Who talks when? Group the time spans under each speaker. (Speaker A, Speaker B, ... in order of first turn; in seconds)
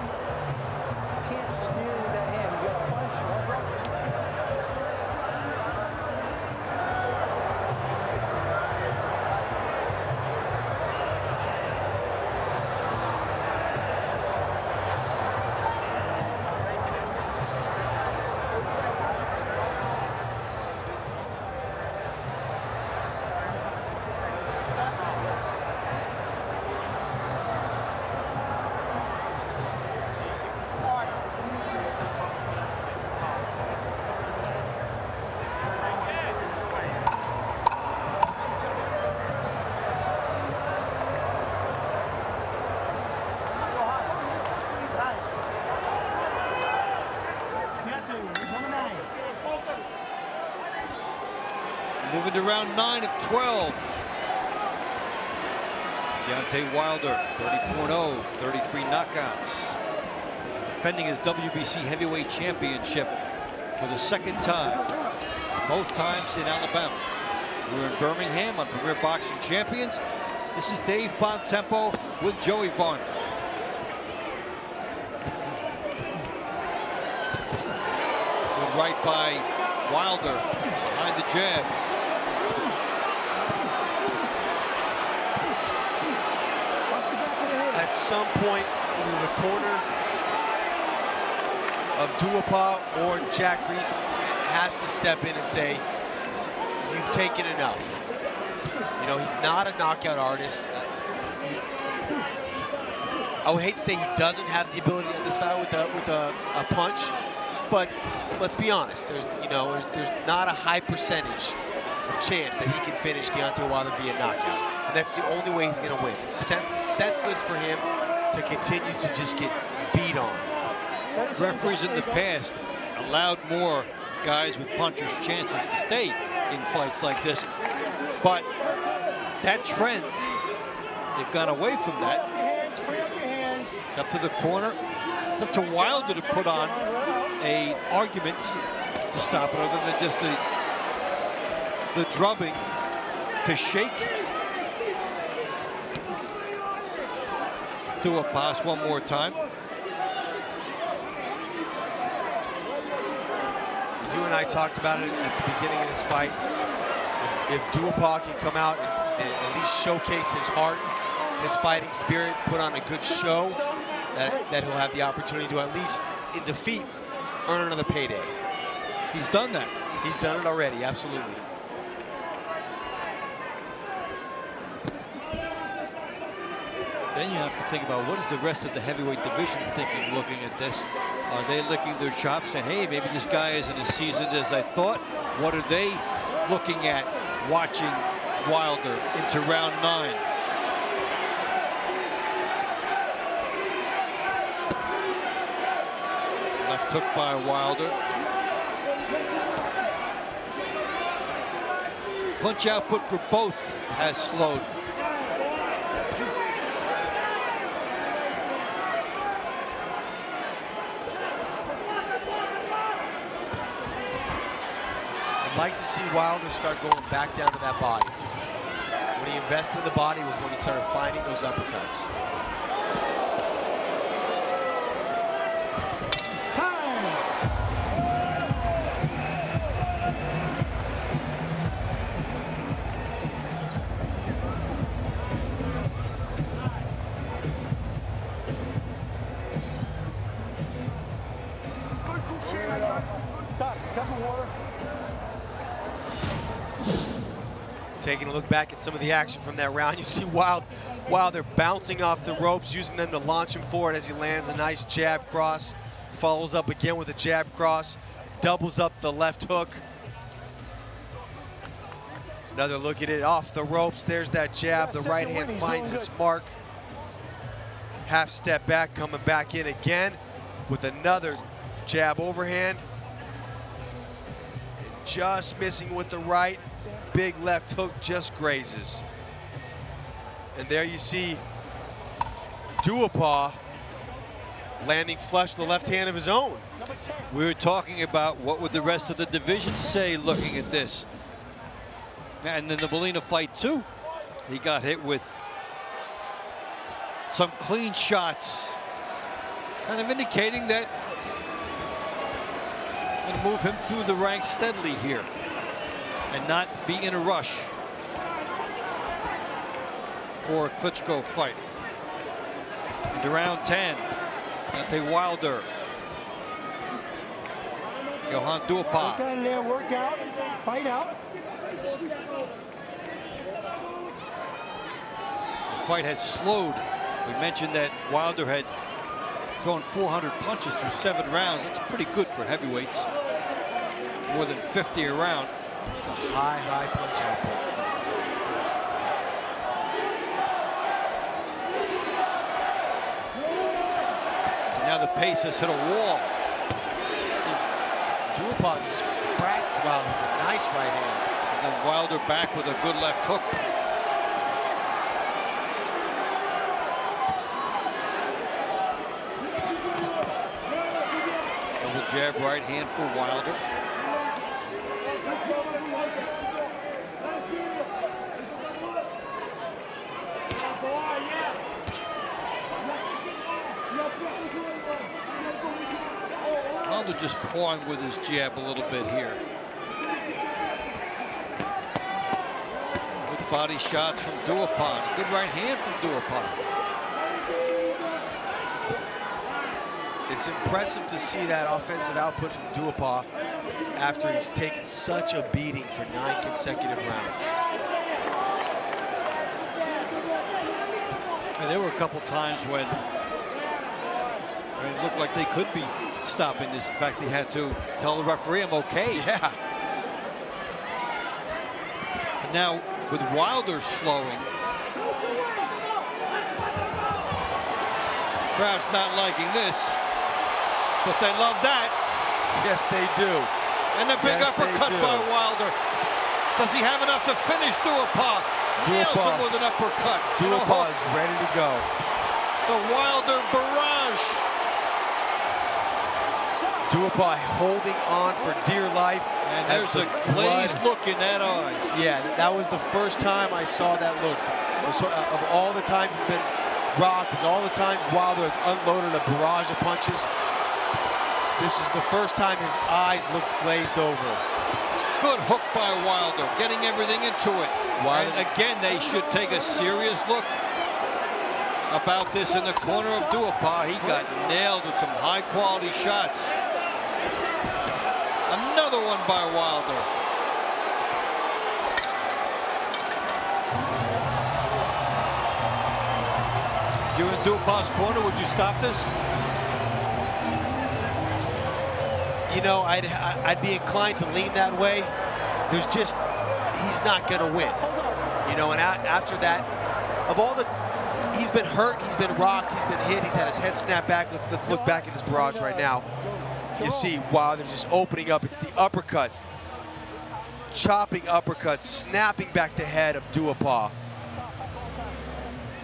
Speaker A: 1.2-3.7, 47.8-49.1, 86.9-87.9, 121.1-122.3, 128.6-129.1, 132.0-133.8, 135.8-137.4, 163.0-164.5, 226.5-227.2, 243.6-244.5, 264.8-266.1, 286.8-287.3, 319.0-321.2, 436.5-437.3, 438.4-438.7, 444.8-445.2, 462.4-463.5, 464.0-464.3, 487.8-488.2, 494.6-497.2, 504.4-505.3
Speaker B: 52.0-54.1, 56.2-59.8, 60.7-63.2, 63.8-64.9, 65.7-67.0, 67.7-70.0, 70.5-73.1, 78.5-81.8, 121.3-127.5, 128.2-128.5, 129.4-130.3, 131.1-132.2, 133.9-134.8, 135.4-136.8, 137.4-138.6, 139.1-140.4, 141.9-142.7, 143.4-144.1, 148.0-149.4, 169.1-169.7, 177.1-190.2, 196.6-198.0, 202.4-204.8, 287.3-291.1, 292.4-293.9, 294.4-295.4, 297.3-298.8, 299.9-300.9, 303.2-305.3, 306.3-307.7, 310.4-311.6, 313.1-314.1, 314.7-315.7, 318.3-319.2, 325.7-328.7, 329.6-333.1, 334.3-335.5, 344.8-346.3, 351.5-353.6, 361.8-363.6, 376.8-379.4, 383.2-386.6, 401.6-403.0, 404.8-409.3, 412.4-414.5, 418.6-420.0, 421.0-421.9, 423.9-425.8, 426.6-430.9, 432.7-434.4, 439.4-441.9, 455.2-460.6, 461.9-466.6, 468.5-470.1, 477.1-479.1
Speaker C: 87.7-89.8, 92.0-95.8, 96.8-98.0, 99.0-101.7, 103.4-107.2, 107.7-120.5, 154.0-156.4, 157.2-163.6, 164.1-166.9, 167.5-168.3, 170.0-171.4, 215.4-218.2, 219.2-222.1, 248.0-259.8, 262.5-266.6, 268.1-272.9, 274.8-279.0, 280.6-281.4, 282.8-283.6, 284.8-286.7, 336.0-337.8, 348.3-351.3, 390.3-393.3, 393.9-397.6, 409.1-409.6, 422.5-423.5, 424.1-425.3, 428.8-429.5, 430.4-431.9, 436.9-440.8, 441.9-450.3, 451.6-454.4, 458.0-458.5, 482.5-485.1, 485.7-486.2, 486.7-487.8, 488.4-489.7, 490.3-490.7, 491.3-496.1, 496.8-499.5, 500.7-503.9